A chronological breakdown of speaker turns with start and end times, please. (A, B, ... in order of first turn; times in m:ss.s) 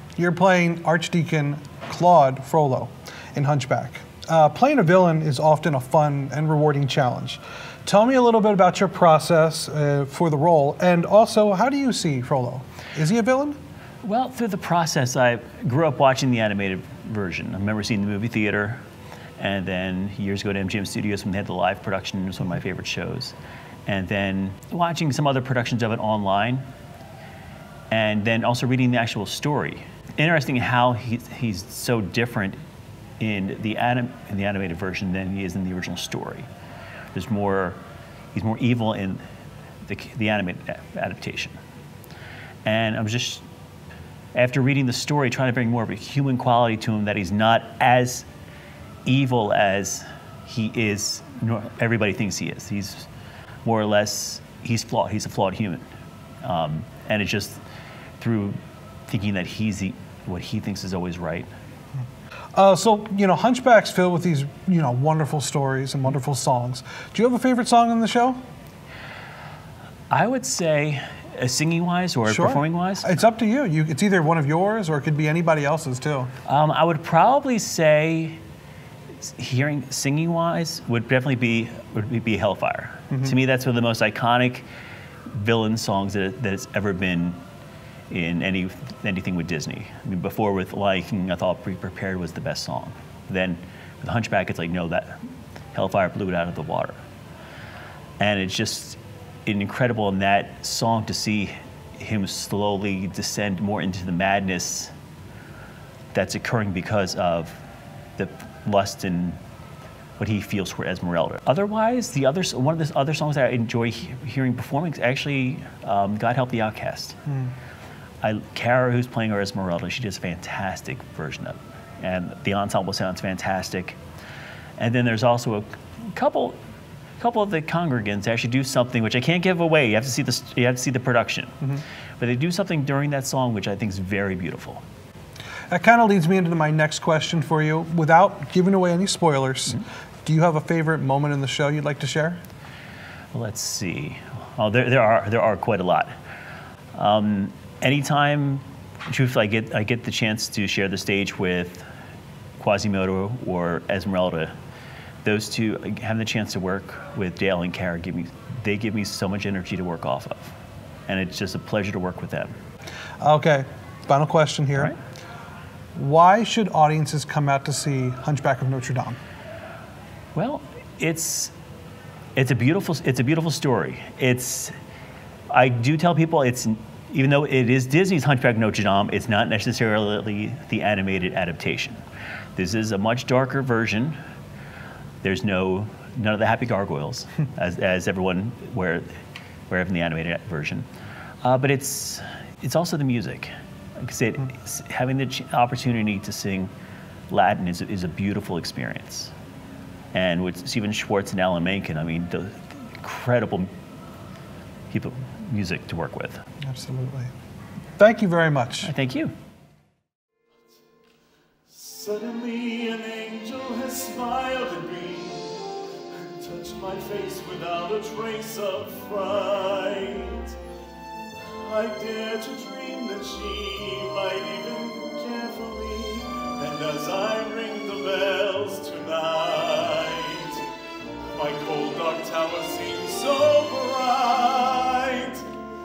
0:00.2-0:13.6 A
0:14.0-0:18.8 B
0:19.4-0:23.3 B
0:23.9-0:26.6 B
0:27.9-0:32.6 B
0:33.2-0:36.5 B
0:37.1-0:37.8 B
0:38.3-0:39.2 B
0:39.9-0:41.6 B
0:42.6-0:43.4 B
0:44.4-0:48.3 B
0:49.1-0:53.1 B
0:53.6-0:55.8 B
0:56.4-0:57.6 B
0:58.2-1:01.5 B
1:02.6-1:08.4 A
1:10.1-1:13.1 B
1:12.3-1:16.3 A
1:16.5-1:18.4 B
1:19.2-1:24.7 B
1:23.1-1:23.4 A
1:25.3-1:27.4 B
1:28.1-1:35.2 B
1:35.7-1:37.0 B
1:38.2-1:44.9 B
1:46.1-1:47.6 B
1:48.2-1:49.4 B
1:50.2-1:57.2 B
1:58.2-2:04.0 B
2:04.8-2:06.6 B
2:07.2-2:11.5 B
2:12.2-2:14.8 B
2:15.7-2:22.4 A
2:23.3-2:26.1 B
2:27.0-2:31.8 B
2:32.6-2:34.5 B
2:35.2-2:40.5 B
2:41.1-2:42.6 B
2:43.2-2:44.9 A
2:46.0-2:49.2 A
2:50.4-2:51.5 B
2:52.4-2:54.7 B
2:55.5-3:02.0 B
3:02.6-3:04.2 B
3:05.2-3:09.1 B
3:09.7-3:10.9 B
3:11.4-3:16.7 B
3:17.3-3:19.3 B
3:20.1-3:23.7 B
3:24.9-3:26.4 B
3:26.6-3:27.3 A
3:28.0-3:28.9 A
3:28.8-3:29.3 B
3:31.8-3:35.5 C
3:36.2-3:40.5 C
3:41.6-3:50.6 C
3:51.3-3:55.5 C